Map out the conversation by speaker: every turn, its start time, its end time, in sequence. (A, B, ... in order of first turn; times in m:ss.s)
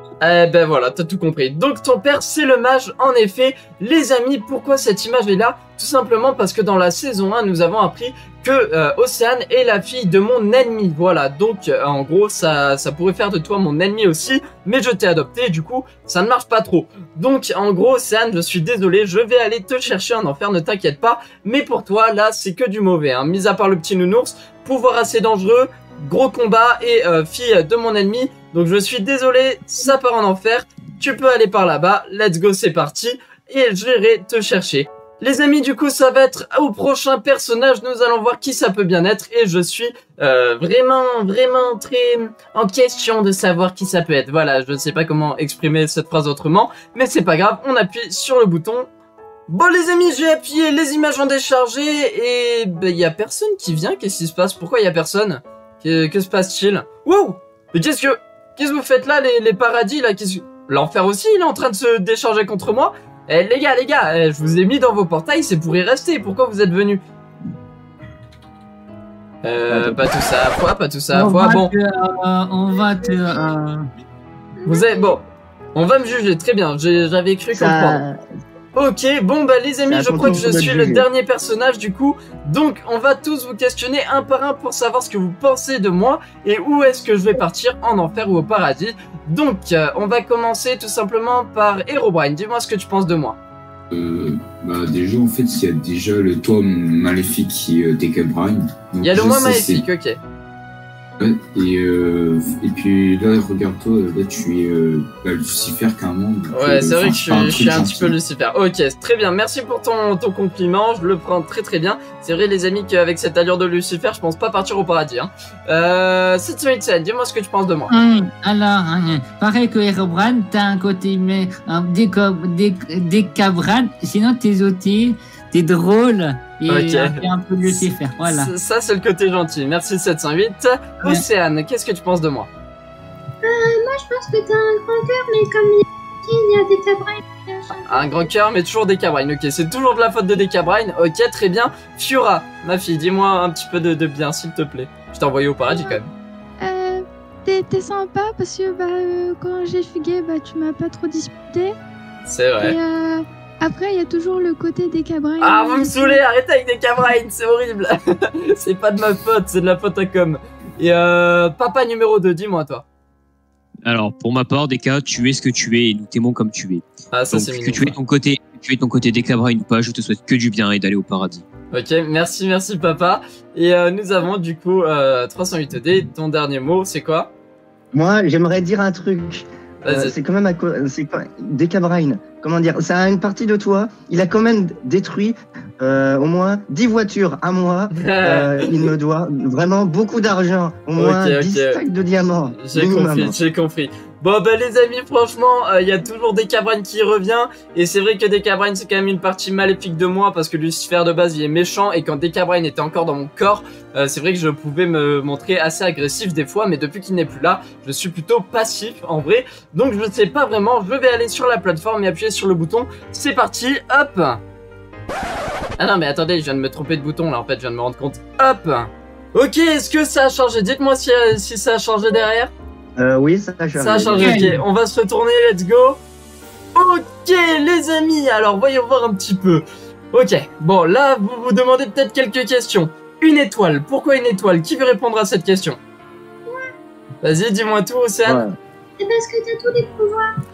0:00.2-0:48.9 A
0:49.5-1:07.0 A
1:09.4-1:11.7 A
1:09.7-1:10.0 B
1:11.1-1:13.8 C
1:14.6-1:15.2 D
1:14.6-1:15.2 A
1:15.7-1:18.0 A
1:17.5-1:18.2 B
1:18.8-1:33.4 A
1:19.9-1:21.0 B
1:33.9-1:39.8 E
1:39.0-1:40.2 A
1:41.2-1:48.1 E
1:46.5-1:57.9 A
1:57.9-2:08.5 C
2:06.7-2:12.5 A
2:13.4-2:18.2 D
2:17.9-2:26.1 A
2:25.7-2:26.0 D
2:26.6-2:31.8 D
2:32.2-2:32.8 A
2:32.6-2:36.2 D
2:35.4-2:42.8 A
2:43.8-2:51.4 F
2:47.1-2:48.0 A
2:51.7-2:57.3 A
2:57.9-3:13.4 B
2:59.8-3:00.1 A
3:07.9-3:08.7 A
3:11.0-3:11.8 A
3:12.6-3:34.4 A
3:35.8-3:42.5 A
3:43.0-3:44.5 B
3:43.8-3:46.0 A
3:44.2-3:44.5 C
3:46.7-3:55.8 A
3:57.2-3:58.4 A
3:58.2-3:58.5 B
3:59.0-4:00.3 D